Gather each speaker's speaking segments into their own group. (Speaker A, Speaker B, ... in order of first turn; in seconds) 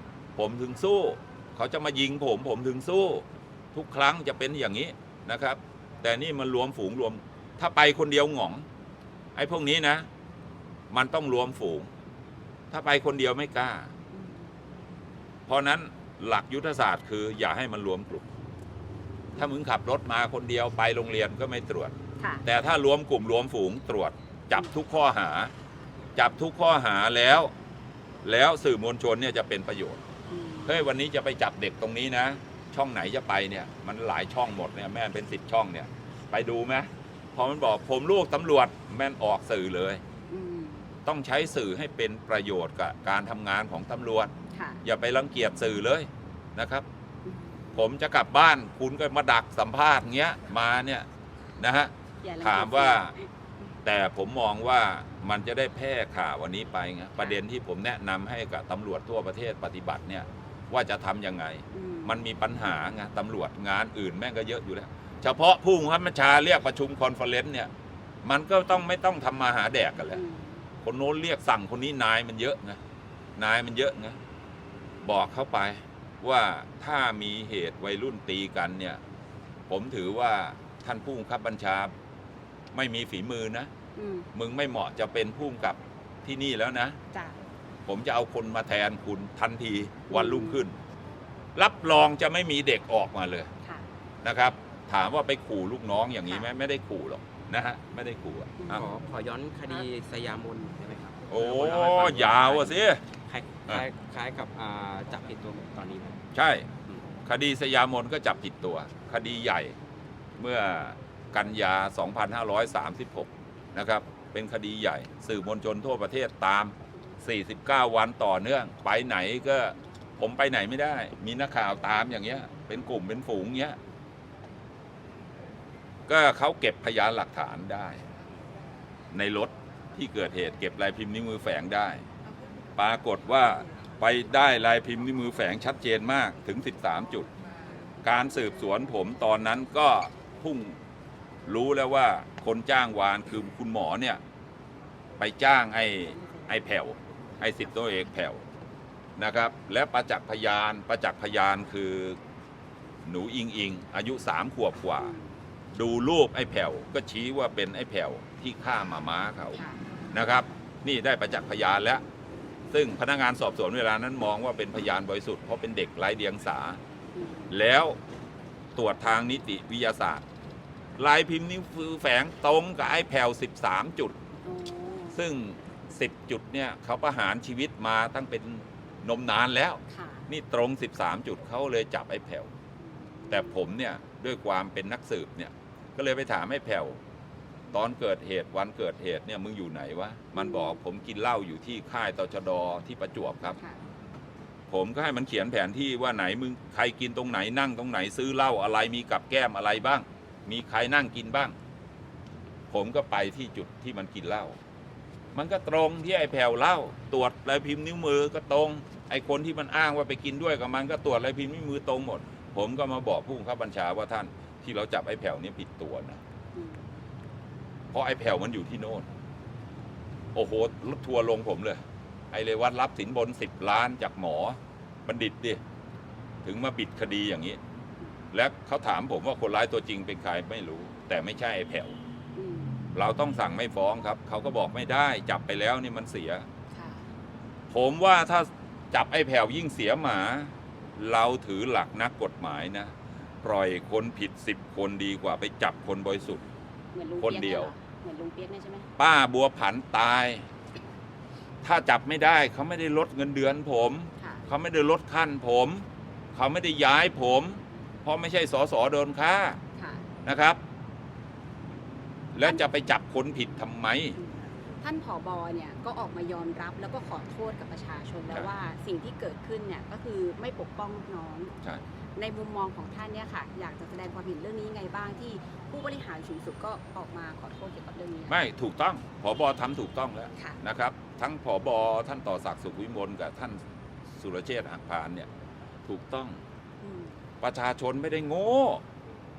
Speaker A: 0.4-8.7, 9.4-10.1, 10.9-11.9, 12.7-13.9, 15.5-18.3, 19.4-21.9, 22.4-25.5, 26.2-27.5, 28.2-30.0, 30.7-40.0, 41.1-44.3, 44.8-46.9, 47.8-51.1, 51.6-53.1, 53.8-67.7, 68.2-70.2, 70.8-72.8, 73.4-74.2, 75.0-79.0, 79.7-81.9, 82.7-83.7, 84.3-87.0, 87.9-90.8, 91.6-93.5, 94.2-98.9, 101.3-103.0, 106.3-106.7, 107.3-109.8, 110.4-123.8, 126.1-128.0, 129.1-132.0, 132.8-137.3, 138.0-140.8, 141.5-144.2, 145.2-148.4, 149.2-152.2, 153.1-155.1, 155.7-159.6, 160.1-162.0, 162.7-166.8, 167.5-168.0, 168.8-170.2, 171.0-174.2, 175.1-182.5, 183.3-187.0, 187.7-193.6, 194.7-201.6, 202.7-204.6, 205.3-216.2, 217.9-219.1, 220.3-221.8, 222.3-225.6, 226.4-227.6, 228.3-232.0, 232.9-236.5, 237.7-246.4, 247.2-247.7, 249.0-250.5, 251.6-259.6, 260.2-260.6, 262.3-264.2, 278.3-283.6, 284.2-285.3, 285.9-286.4, 287.4-288.8
Speaker B: 14.1-14.5, 30.3-30.9, 40.3-40.9, 44.5-44.8, 47.2-47.8, 52.2-53.3, 61.7-62.2, 70.1-70.6, 84.0-84.3, 87.1-87.4, 90.1-90.6, 98.6-98.9, 155.0-155.3, 159.5-159.8, 167.2-167.5, 174.4-175.2, 179.9-180.3, 182.8-183.6, 190.4-190.8, 216.6-216.9, 232.4-232.8, 236.7-237.1, 246.9-248.9, 259.8-260.0, 264.2-271.5, 272.2-278.4, 286.8-287.1
Speaker C: 98.7-102.7, 103.3-106.2